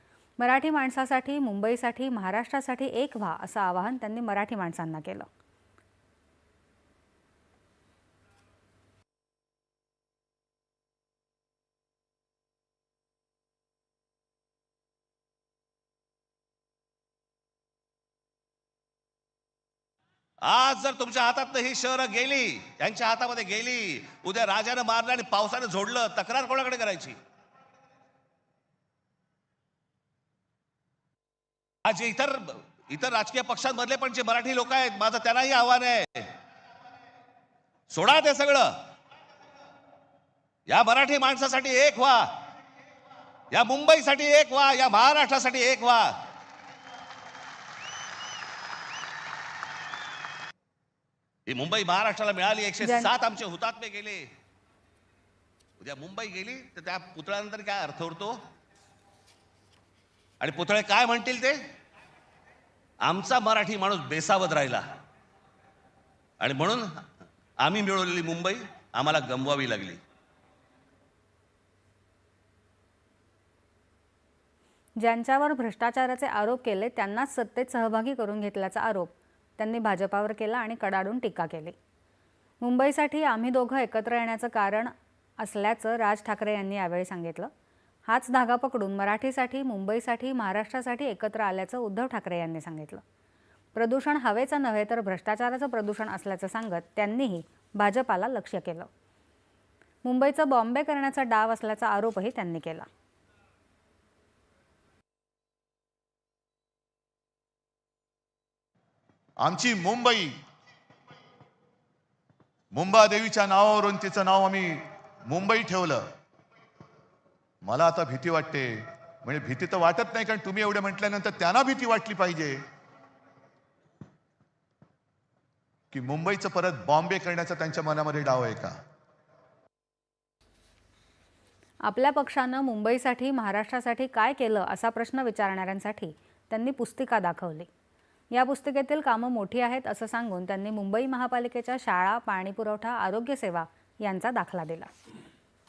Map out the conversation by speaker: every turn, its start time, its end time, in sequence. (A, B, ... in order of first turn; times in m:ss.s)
0:00.4-0:05.3 A
0:20.4-0:27.2 B
0:31.8-0:36.3 B
0:37.9-0:38.7 B
0:40.7-0:42.3 B
0:43.5-0:46.1 B
0:51.5-0:54.3 B
0:52.8-0:53.1 A
0:55.8-0:58.4 B
1:00.4-1:01.6 B
1:03.0-1:04.8 B
1:06.4-1:07.0 B
1:07.6-1:10.0 B
1:15.0-1:21.8 A
1:22.6-1:27.5 A
1:28.1-1:33.0 A
1:33.7-1:38.9 A
1:40.0-1:42.9 A
1:49.4-1:50.3 C
1:52.7-1:56.0 C
1:57.6-1:58.7 C
1:59.2-2:02.6 C
2:05.9-2:08.7 C
2:11.8-2:17.7 A
2:18.3-2:24.9 A